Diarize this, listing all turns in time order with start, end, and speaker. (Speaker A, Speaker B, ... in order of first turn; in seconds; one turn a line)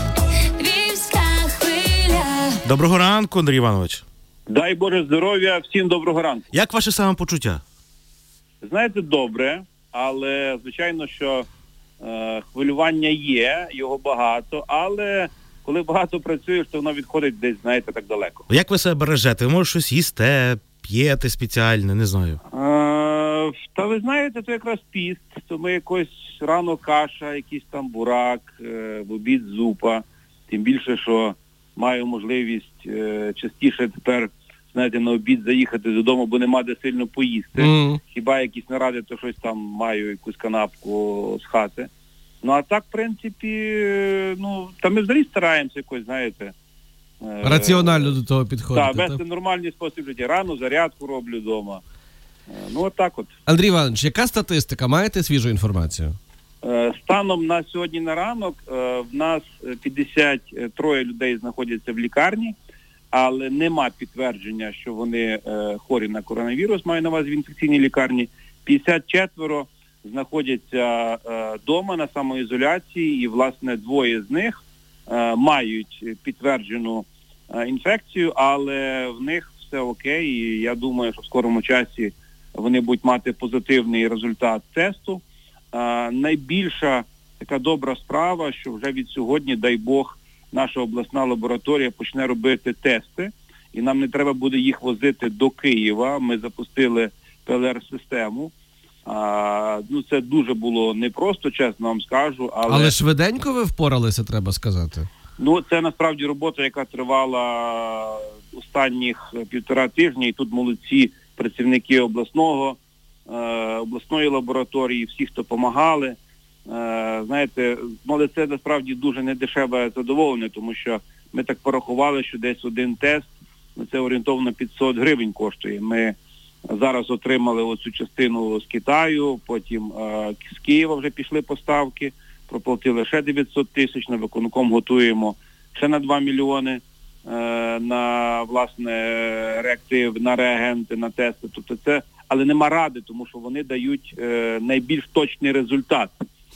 Speaker A: 0.6-2.6
Speaker B: 2.6-4.0
Speaker C: 4.5-6.5
Speaker B: 6.5-7.6
Speaker C: 8.6-11.5
Speaker C: 12.0-18.5
Speaker B: 18.5-22.4
Speaker C: 22.5-41.9
Speaker D: 37.6-38.0
Speaker C: 42.4-46.5
Speaker C: 47.2-48.2
Speaker D: 47.4-49.2
Speaker C: 48.7-51.8
Speaker C: 52.5-53.3
Speaker D: 53.5-56.1
Speaker C: 56.6-62.5
Speaker C: 63.1-74.5
Speaker C: 75.1-98.5
Speaker C: 99.0-103.0
Speaker D: 102.7-105.1
Speaker C: 105.4-126.2
Speaker C: 126.7-146.1